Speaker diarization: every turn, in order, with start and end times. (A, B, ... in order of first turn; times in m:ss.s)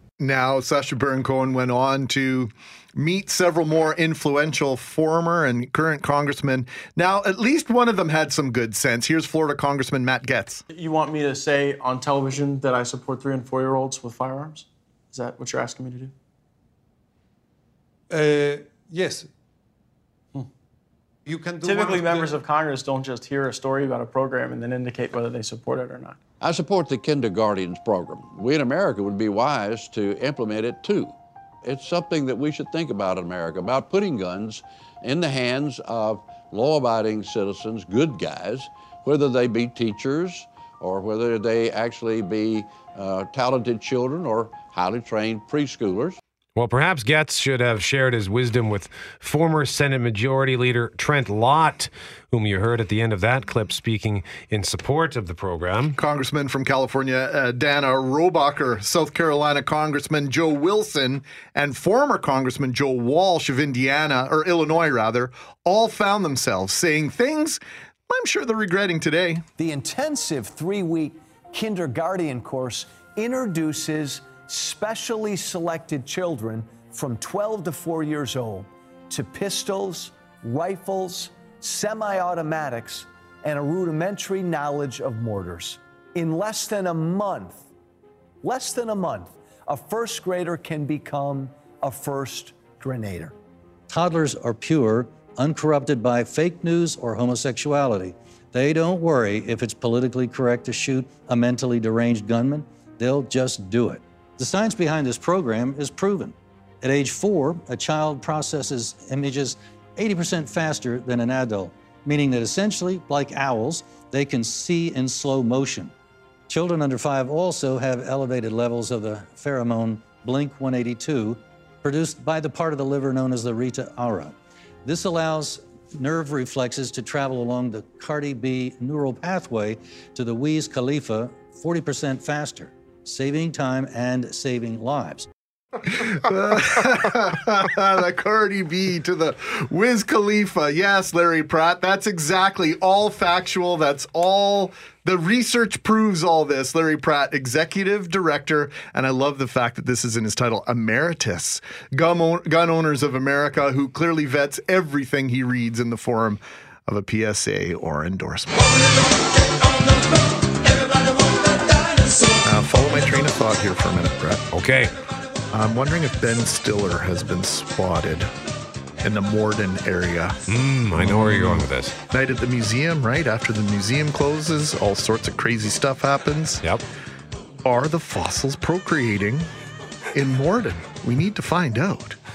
0:00.2-0:10.6 A
0:10.7-0:16.1 B
0:18.1-0:19.2 C
0:21.3-0:22.2 C
0:21.6-0:26.2 B
0:26.4-0:46.2 D
0:46.6-0:56.0 E
0:56.0-1:09.4 A
1:09.6-1:27.7 F
1:28.4-1:33.4 F
1:33.9-1:55.9 G
1:56.5-2:15.3 G
2:16.0-2:39.0 A
2:42.4-2:44.4 A
2:44.5-2:44.9 E
2:45.5-2:48.3 A
2:49.0-2:50.4 A
2:50.5-2:51.9 E
2:51.0-2:56.6 A
2:57.6-2:59.5 A
3:00.1-3:02.2 A